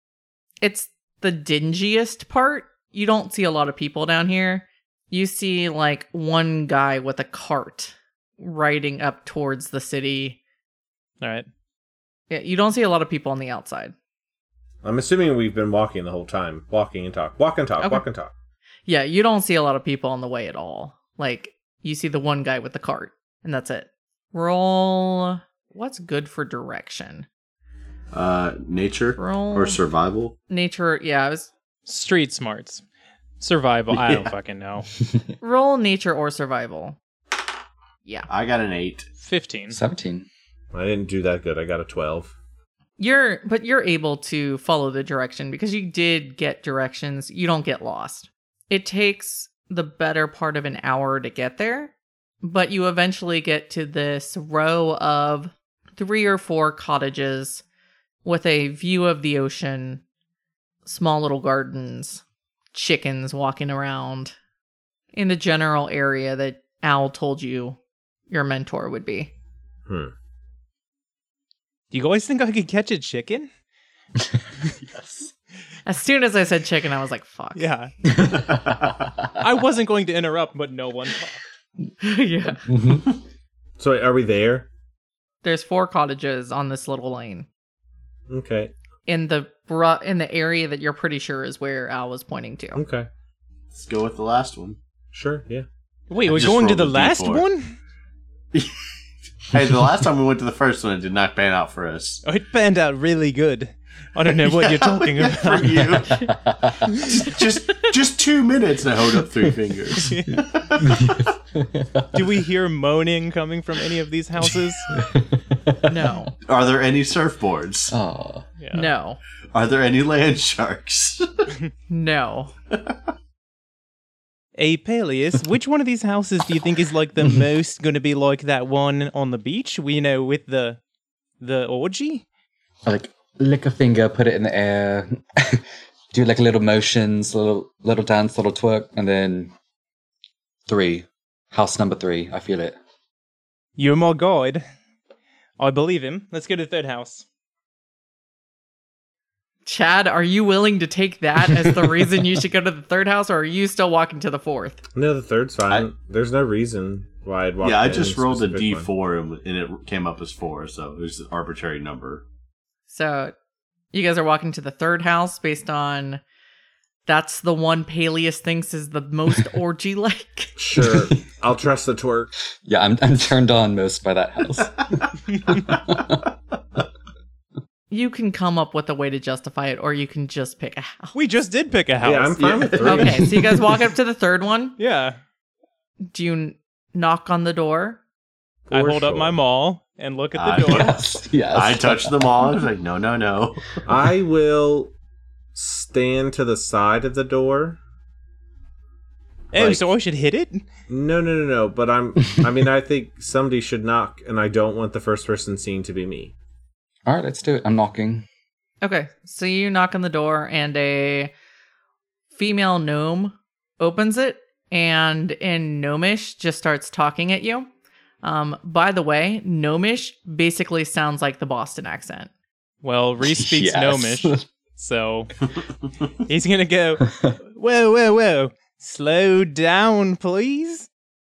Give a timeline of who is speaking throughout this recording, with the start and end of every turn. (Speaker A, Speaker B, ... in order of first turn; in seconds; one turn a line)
Speaker A: 0.6-10.4
Speaker B: 11.2-11.5
Speaker A: 12.3-13.9
Speaker C: 14.8-18.3
Speaker A: 18.9-27.3
Speaker D: 28.1-30.4
Speaker A: 29.2-29.8
Speaker A: 30.5-31.5
Speaker B: 31.9-32.8
Speaker B: 33.4-34.9
Speaker D: 33.9-34.3
Speaker A: 35.4-37.0
Speaker D: 38.3-39.1
Speaker B: 39.2-39.8
Speaker E: 39.7-40.2
Speaker C: 40.7-42.3
Speaker A: 43.0-57.6
Speaker A: 58.2-60.0
Speaker A: 60.8-62.2
Speaker A: 62.7-64.3
Speaker A: 65.1-67.8
Speaker A: 68.3-69.3
Speaker C: 69.9-70.1
Speaker B: 71.9-73.5
Speaker A: 75.8-77.7
Speaker B: 77.5-77.9
Speaker E: 78.1-79.3
Speaker B: 79.3-81.4
Speaker A: 82.0-82.7
Speaker E: 82.7-83.0
Speaker C: 83.8-84.7
Speaker A: 85.4-87.5
Speaker C: 88.3-88.7
Speaker A: 89.1-92.8
Speaker C: 92.8-93.1
Speaker D: 93.7-94.8
Speaker C: 95.1-95.7
Speaker B: 96.1-97.7
Speaker D: 96.2-97.4
Speaker D: 99.5-102.2
Speaker B: 102.2-106.1
Speaker D: 104.3-106.2
Speaker E: 106.4-107.1
Speaker D: 107.0-110.9
Speaker B: 110.0-110.3
Speaker E: 110.3-112.2
Speaker B: 112.1-114.9
Speaker E: 114.9-116.0
Speaker A: 115.9-116.3
Speaker D: 116.5-117.9
Speaker E: 117.9-118.4
Speaker B: 118.6-118.9
Speaker A: 118.7-119.2
Speaker D: 119.5-121.5
Speaker A: 121.9-122.5
Speaker B: 124.5-130.8
Speaker E: 127.2-127.4
Speaker B: 131.4-132.2
Speaker E: 132.8-139.5
Speaker E: 140.7-142.8
Speaker B: 143.8-144.6
Speaker B: 145.6-147.2
Speaker A: 149.7-154.8
Speaker C: 154.9-158.9
Speaker D: 157.6-162.2
Speaker A: 162.9-163.3
Speaker A: 163.9-166.2
Speaker A: 167.1-170.6
Speaker C: 170.6-172.3
Speaker E: 170.7-171.2
Speaker E: 172.6-176.2
Speaker A: 177.9-181.2
Speaker B: 181.1-182.8
Speaker C: 182.0-183.3
Speaker D: 182.5-183.1
Speaker A: 182.8-184.8
Speaker E: 183.0-183.6
Speaker B: 184.8-185.2
Speaker A: 186.1-188.0
Speaker C: 188.7-189.4
Speaker B: 188.7-191.0
Speaker D: 190.3-191.0
Speaker E: 190.6-192.6
Speaker D: 191.5-193.8
Speaker C: 193.8-194.9
Speaker C: 195.5-197.8
Speaker B: 199.5-200.6
Speaker C: 199.5-199.8
Speaker C: 200.9-206.3
Speaker E: 207.1-208.2
Speaker A: 208.8-211.3
Speaker A: 212.3-217.7
Speaker A: 218.2-222.3
Speaker B: 222.8-225.5
Speaker E: 223.2-224.4
Speaker B: 226.2-230.9